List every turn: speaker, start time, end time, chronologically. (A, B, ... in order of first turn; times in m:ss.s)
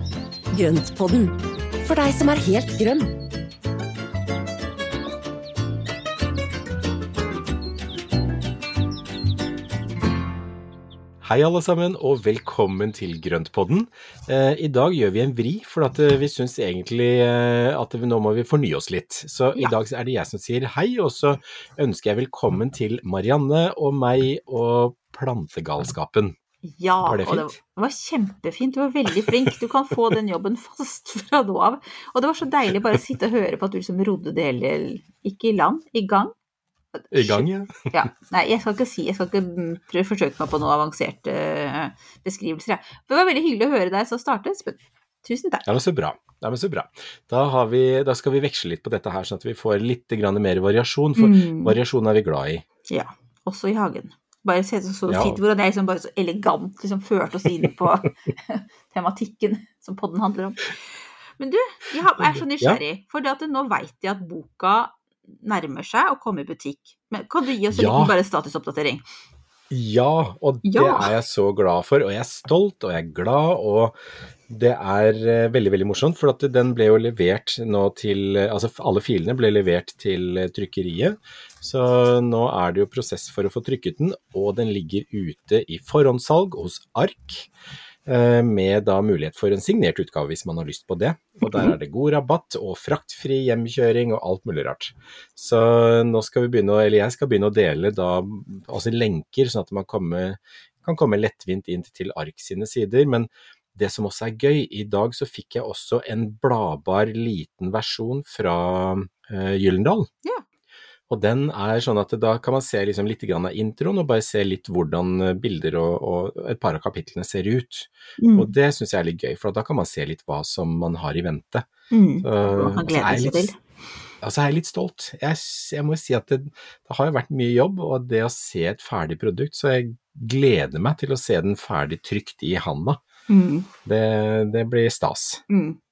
0:00.5-0:03.1 A
0:11.2-0:26.4 B
0:26.6-0:36.3 C
0:27.1-0:27.5 B
0:37.0-0:45.6 C
0:37.1-0:38.1 B
0:45.6-0:52.6 B
0:51.2-0:51.8 C
0:52.9-1:00.8 C
0:55.1-0:55.4 B
1:01.4-1:09.0 C
1:02.2-1:02.8 B
1:07.7-1:08.2 B
1:09.7-1:14.0 B
1:10.6-1:11.1 C
1:14.5-1:27.5 B
1:28.1-1:50.1 B
1:51.1-2:01.7 B
1:58.2-1:58.5 C
2:01.9-2:03.6 C
2:02.2-2:03.5 B
2:04.2-2:13.0 B
2:13.3-2:13.7 C
2:13.8-2:15.4 B
2:15.5-2:15.8 C